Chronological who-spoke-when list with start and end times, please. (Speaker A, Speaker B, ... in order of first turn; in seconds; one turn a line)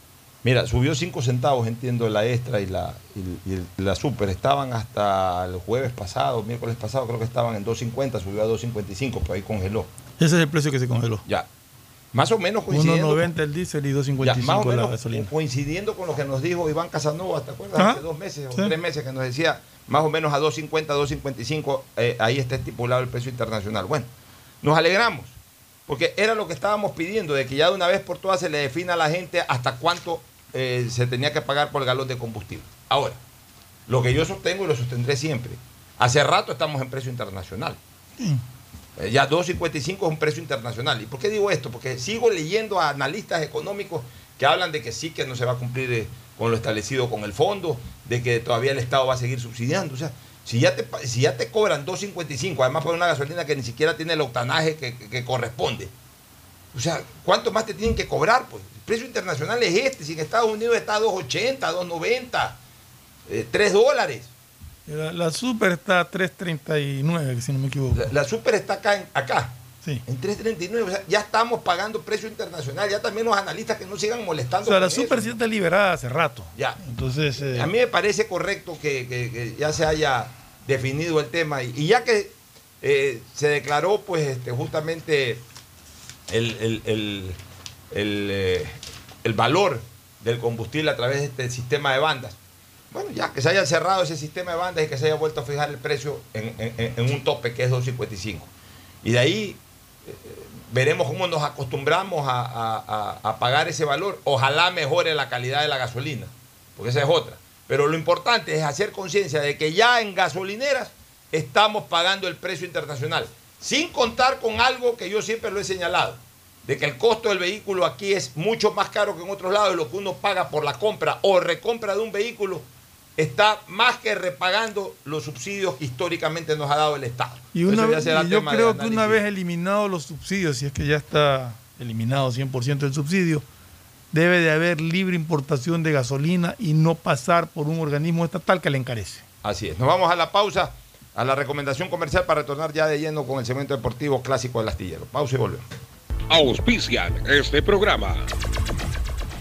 Speaker A: 0.4-9.9
Speaker B: 10.2-11.2
Speaker A: 12.1-13.3
Speaker B: 12.7-15.3
Speaker A: 14.2-24.1
Speaker B: 17.8-18.0
Speaker A: 24.6-25.3
Speaker A: 25.9-33.2
Speaker A: 33.9-37.8
Speaker A: 39.0-55.9
Speaker A: 56.7-62.6
Speaker A: 63.3-64.3
Speaker B: 64.9-68.1
Speaker A: 67.9-69.5
Speaker A: 70.0-75.3
Speaker B: 74.6-77.7
Speaker A: 77.4-85.4
Speaker A: 86.3-87.4
Speaker A: 87.9-92.4
Speaker A: 92.9-98.5
Speaker A: 99.0-122.6
Speaker A: 123.2-129.2
Speaker B: 127.5-133.4
Speaker B: 134.1-139.2
Speaker A: 139.4-145.6
Speaker C: 146.3-148.3